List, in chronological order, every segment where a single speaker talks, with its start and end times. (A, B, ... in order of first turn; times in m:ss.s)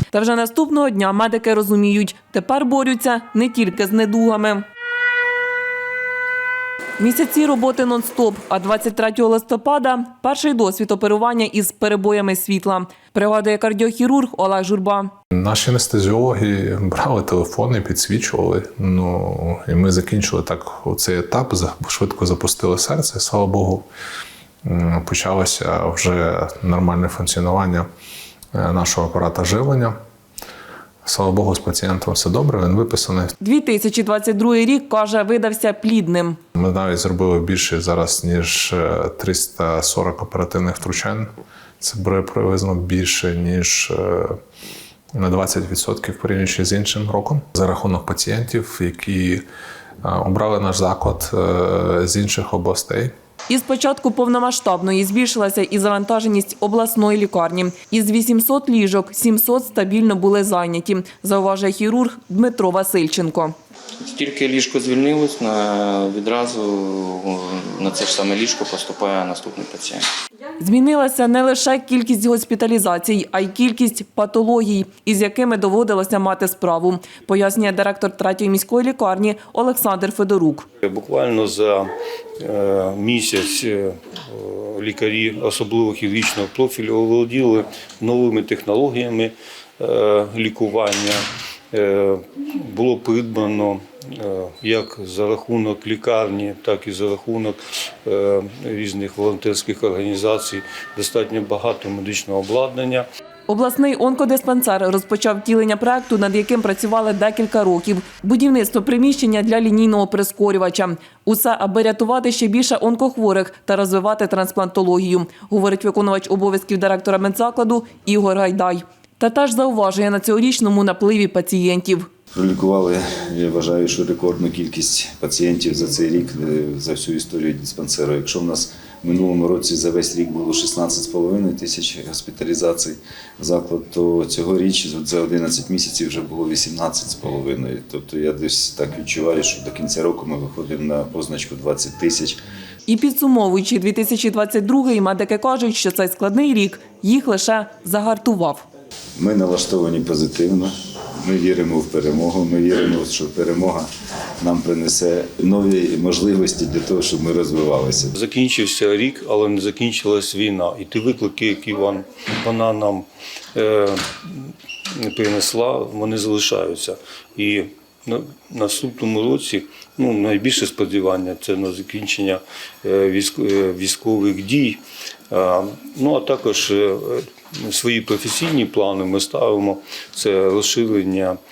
0:00.1-0:04.6 A
0:07.0-0:15.1 A
0:15.4-0:23.8 B
0:24.6-0:27.8 B
0:28.5-0:29.9 B
0:31.0-0:33.3 B
0:33.4-0:36.4 A
0:36.5-0:41.3 B
0:41.8-0:44.4 B
0:45.1-0:49.4 B
0:50.0-0:53.1 B
0:53.5-1:03.5 A
1:04.0-1:10.0 C
1:10.6-1:20.7 A
1:20.8-1:21.9 D
1:22.4-1:43.0 D
1:43.5-2:02.1 A
2:02.3-2:22.4 E
2:22.9-2:28.6 A
2:29.2-2:33.9 E
2:34.4-2:38.1 E
2:38.1-3:01.4 D